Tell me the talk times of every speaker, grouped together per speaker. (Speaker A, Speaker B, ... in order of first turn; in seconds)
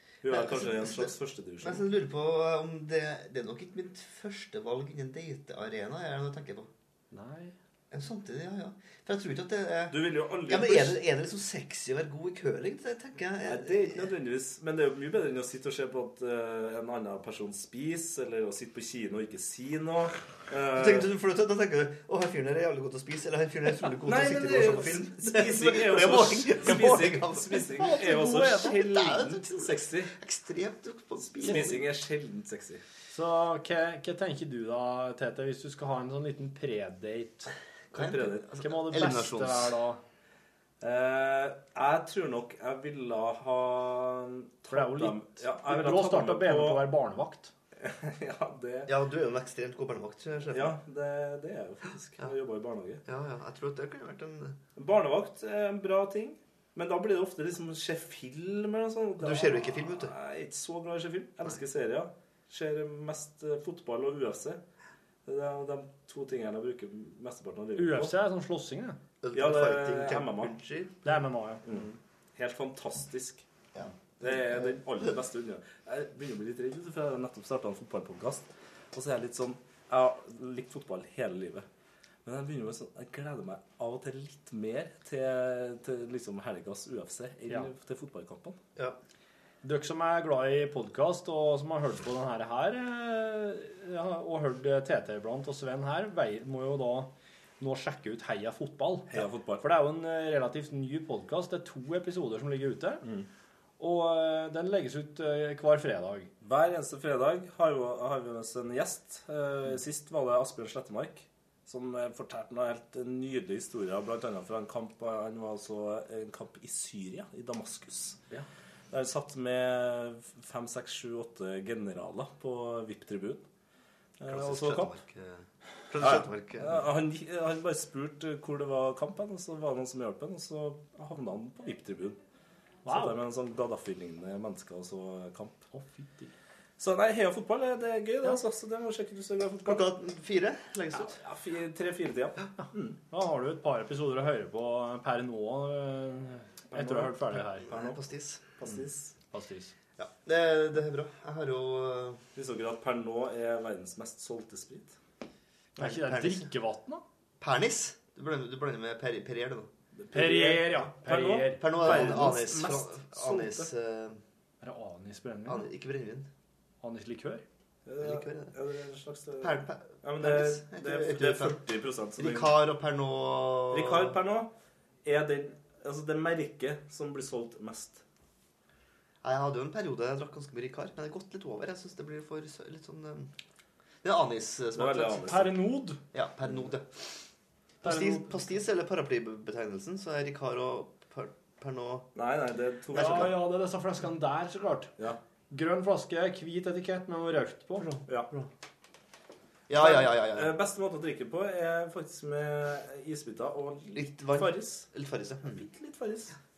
Speaker A: 0.2-1.9, 9.9-11.0, 13.4-21.1, 24.0-30.1, 31.3-32.8, 37.9-38.5, 40.8-46.9, 47.8-48.9, 50.5-53.0, 54.8-64.6, 65.2-68.2, 69.3-70.5, 71.6-73.4, 74.2-81.7, 82.2-88.6, 99.1-99.6, 106.4-118.2, 118.9-123.4, 124.2-125.0, 126.0-132.2, 132.8-135.6, 136.8-139.9, 140.9-143.0, 146.7-147.1, 148.6-149.1, 152.3-154.9, 159.9-163.7, 167.8-172.6, 173.7-174.5, 175.0-178.0, 184.7-185.6, 192.1-193.4, 199.7-204.9, 205.5-206.3
Speaker B: 0.2-6.7, 7.9-14.1, 20.7-31.9, 37.9-39.7, 48.9-50.8, 53.0-54.6, 59.2-60.1, 69.2-71.0, 73.7-74.8, 124.3-126.8, 139.6-141.2, 147.3-148.5, 150.0-152.2, 155.8-156.5, 157.4-159.7, 161.6-164.2, 165.4-166.3, 168.0-168.5, 169.4-171.6, 172.2-174.2, 179.2-183.3, 184.0-185.5, 186.1-187.0, 187.8-192.1, 192.9-193.3, 197.8-198.5, 199.7-200.5, 203.9-205.6
Speaker C: 7.1-7.5, 31.4-31.7, 33.1-37.5, 38.6-40.0, 44.7-47.5, 67.8-69.0, 71.0-71.9, 89.6-103.0, 103.8-106.3, 132.8-133.2, 135.7-136.3, 143.1-148.0, 149.3-149.7, 155.8-157.0, 160.1-162.3, 164.6-165.7, 166.8-167.4, 185.2-186.0, 187.8-188.4, 192.9-194.9, 195.5-197.9